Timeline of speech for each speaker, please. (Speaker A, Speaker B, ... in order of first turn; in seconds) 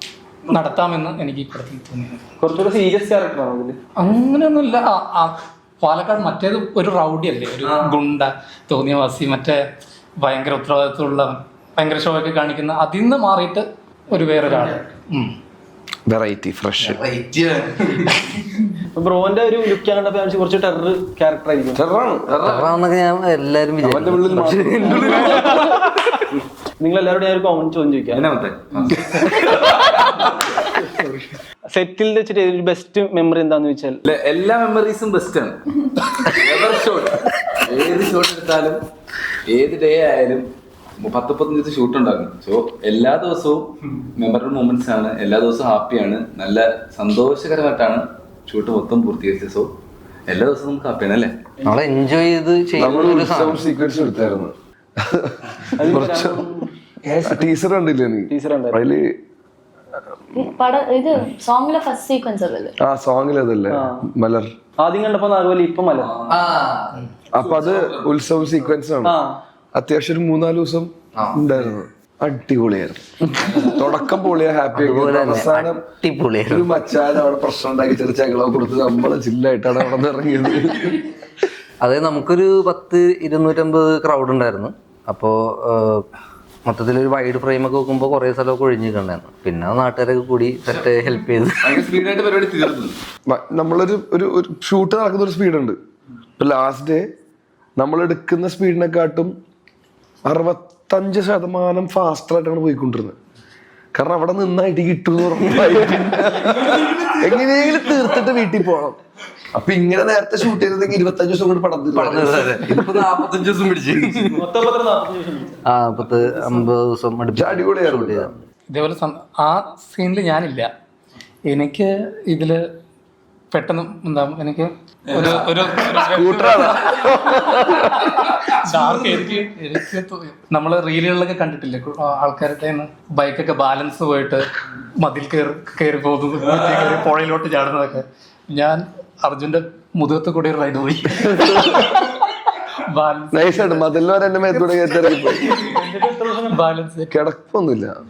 Speaker A: 0.5-2.2, 4.0-9.6, 10.2-15.3, 118.7-120.7, 121.5-122.6, 123.5-134.5, 135.0-142.2, 142.7-144.8, 146.4-147.1
Speaker B: 2.4-3.8, 18.9-22.0, 24.8-25.5, 26.8-28.2, 31.7-34.0, 55.8-56.7, 58.3-58.8, 63.7-64.0, 64.8-66.1, 69.0-69.4, 114.3-115.6, 145.6-146.6
Speaker C: 16.1-17.0, 21.7-22.4, 23.8-26.2, 52.8-56.4, 57.1-59.0, 62.8-64.5, 67.3-69.1, 69.7-75.8, 76.5-81.1, 93.3-95.7, 96.4-97.0, 97.8-99.3, 100.2-103.1, 103.9-109.0, 109.5-112.9, 117.3-118.3, 126.0-128.4, 141.4-141.9, 143.3-145.6, 147.1-147.9
Speaker D: 16.9-17.7, 22.4-25.0, 51.6-53.6, 66.3-67.0, 74.7-76.8, 81.8-86.0, 86.7-91.9, 111.9-114.4, 115.7-118.3
Speaker E: 22.3-22.7, 28.1-30.3, 34.0-35.5, 36.2-38.8, 39.5-40.4, 41.0-49.7, 50.3-51.3, 66.2-66.6, 67.4-68.1, 73.4-73.8, 91.6-93.0, 125.1-125.3
Speaker F: 60.4-62.7